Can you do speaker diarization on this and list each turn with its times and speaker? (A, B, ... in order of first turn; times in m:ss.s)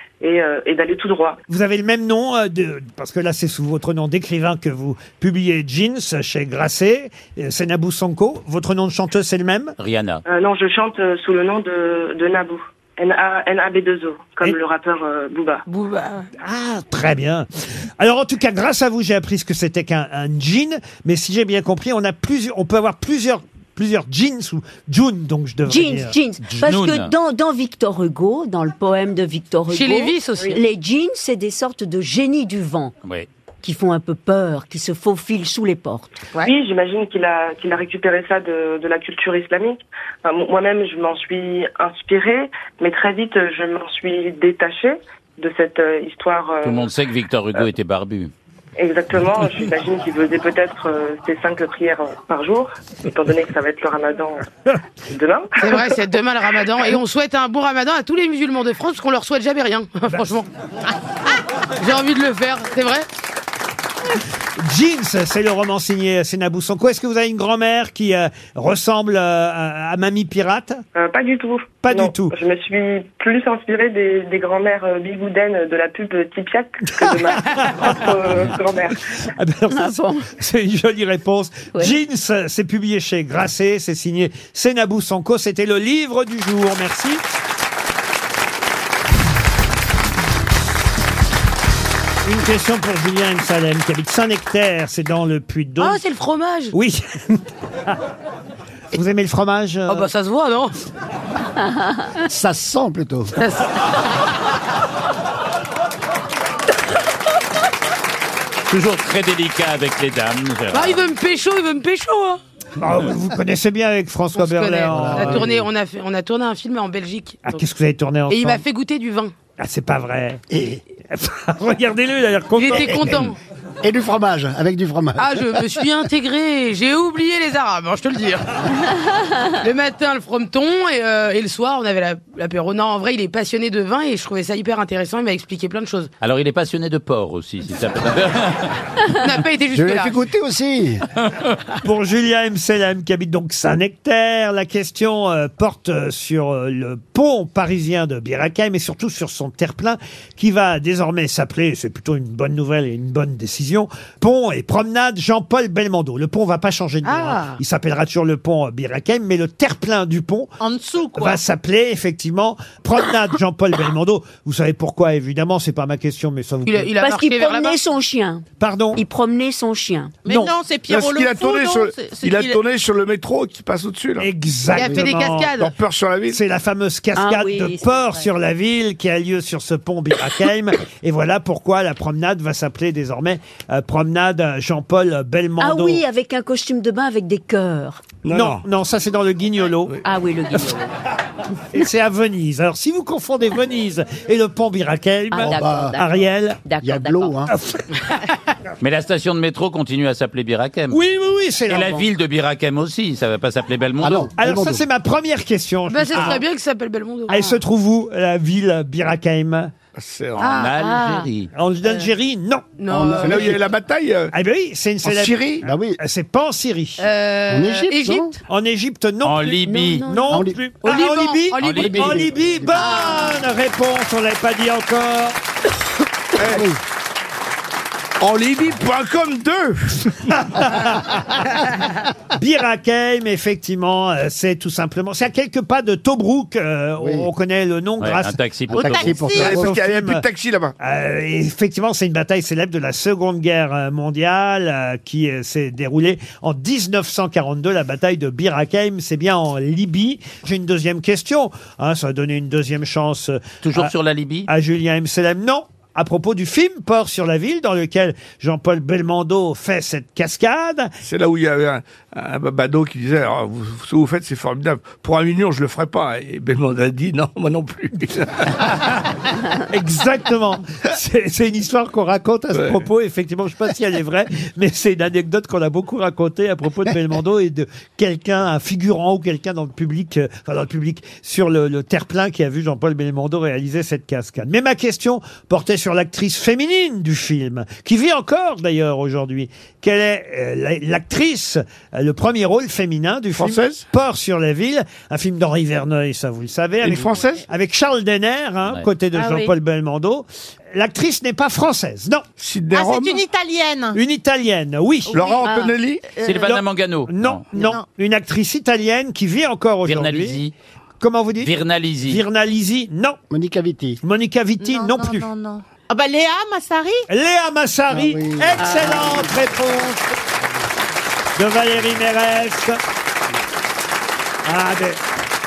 0:00.2-0:01.4 A
0:01.5-0:09.8 B
0:09.8-0:10.2 C
0:10.2-0:15.6 A
0:15.7-0:16.3 D
0:16.4-0:17.5 B
0:18.0-0:26.2 B
0:25.7-0:32.9 E
0:26.4-0:27.1 C
0:29.7-0:30.5 D
0:33.6-0:36.1 E
0:36.4-0:46.9 A
0:46.6-0:48.3 C
0:48.8-0:54.4 A
0:55.1-0:55.8 A
0:55.6-1:00.5 D
1:01.8-1:03.0 D
1:04.6-1:10.8 B
1:10.9-1:19.0 A
1:11.8-1:12.3 B
1:17.0-1:18.0 B
1:19.2-1:27.2 B
1:19.7-1:20.3 E
1:32.2-1:36.0 B
1:35.8-1:36.7 D
1:36.7-1:38.0 B
1:38.9-1:40.1 B
1:39.9-1:40.7 D
1:42.2-1:43.3 F
1:43.4-1:43.7 D
1:48.7-1:51.0 C
1:50.7-1:52.4 D
1:52.8-1:55.5 B
1:54.3-1:57.6 D
1:54.9-1:55.7 F
1:57.4-1:58.6 B
1:58.3-1:59.3 D
1:59.6-2:00.4 B
2:00.5-2:00.8 F
2:01.0-2:03.3 B
2:02.6-2:03.4 D
2:03.8-2:05.8 F
2:05.2-2:08.9 D
2:09.5-2:16.1 D
2:16.2-2:18.8 C
2:19.1-2:20.2 D
2:19.7-2:21.0 F
2:21.8-2:40.5 B
2:37.0-2:37.6 D
2:40.6-2:41.4 G
2:41.1-2:46.9 B
2:46.6-2:47.8 D
2:47.0-2:48.4 E
2:48.6-2:49.0 B
2:49.0-2:50.2 E
2:50.2-2:52.6 G
2:50.9-2:54.3 H
2:54.2-2:55.6 B
2:54.7-2:55.7 D
2:54.8-2:55.1 F
2:55.5-2:56.4 H
2:56.3-3:06.0 B
2:57.2-2:58.2 E
3:05.6-3:08.0 E
3:08.2-3:08.6 H
3:08.3-3:10.0 B
3:10.0-3:10.9 E
3:11.7-3:16.6 B
3:15.3-3:16.1 E
3:15.4-3:16.0 F
3:16.6-3:17.3 E
3:16.8-3:17.5 F
3:17.5-3:17.8 B
3:18.8-3:21.0 C
3:20.9-3:22.0 B
3:21.7-3:24.3 C
3:24.0-3:24.8 F
3:24.4-3:26.4 B
3:25.9-3:27.5 D
3:27.3-3:29.7 B
3:29.9-3:30.6 H
3:30.4-3:31.5 C
3:30.4-3:31.2 D
3:30.8-3:31.2 E
3:31.5-3:33.6 B
3:32.8-3:33.4 D
3:32.9-3:33.6 F
3:33.2-3:34.3 H
3:34.3-3:37.1 B
3:35.0-3:35.6 H
3:35.6-3:36.0 F
3:37.0-3:38.4 D
3:37.5-3:38.3 F
3:38.5-3:45.4 B
3:39.2-3:40.0 C
3:39.7-3:40.3 E
3:40.3-3:40.6 F
3:40.8-3:42.1 D
3:41.5-3:42.2 C
3:41.7-3:43.0 F
3:42.7-3:43.4 D
3:46.4-3:46.7 H
3:46.4-3:46.8 F
3:48.2-3:50.4 H
3:50.3-3:51.5 B
3:52.3-4:00.2 B
3:57.0-3:57.3 F
3:58.0-3:59.2 C
3:58.7-3:59.6 F
3:58.8-3:59.5 G
3:59.3-4:00.7 H
4:00.8-4:13.9 B
4:13.6-4:14.5 C
4:14.5-4:20.9 B
4:21.0-4:28.7 H
4:29.7-5:02.2 B
4:53.4-4:53.8 H
4:56.8-4:57.4 H
4:59.1-4:59.5 G
5:02.4-5:03.2 H
5:02.7-5:04.0 G
5:03.9-5:05.2 B
5:05.1-5:06.6 G
5:05.1-5:06.0 H
5:06.2-5:07.7 C
5:07.1-5:10.4 B
5:07.5-5:07.8 G
5:09.8-5:10.5 C
5:11.0-5:11.5 B
5:11.4-5:12.2 C
5:12.0-5:13.2 B
5:13.3-5:14.0 F
5:14.0-5:15.3 B
5:14.6-5:17.0 G
5:17.1-5:20.2 B
5:17.9-5:19.3 F
5:21.4-5:22.8 B
5:24.4-5:25.0 B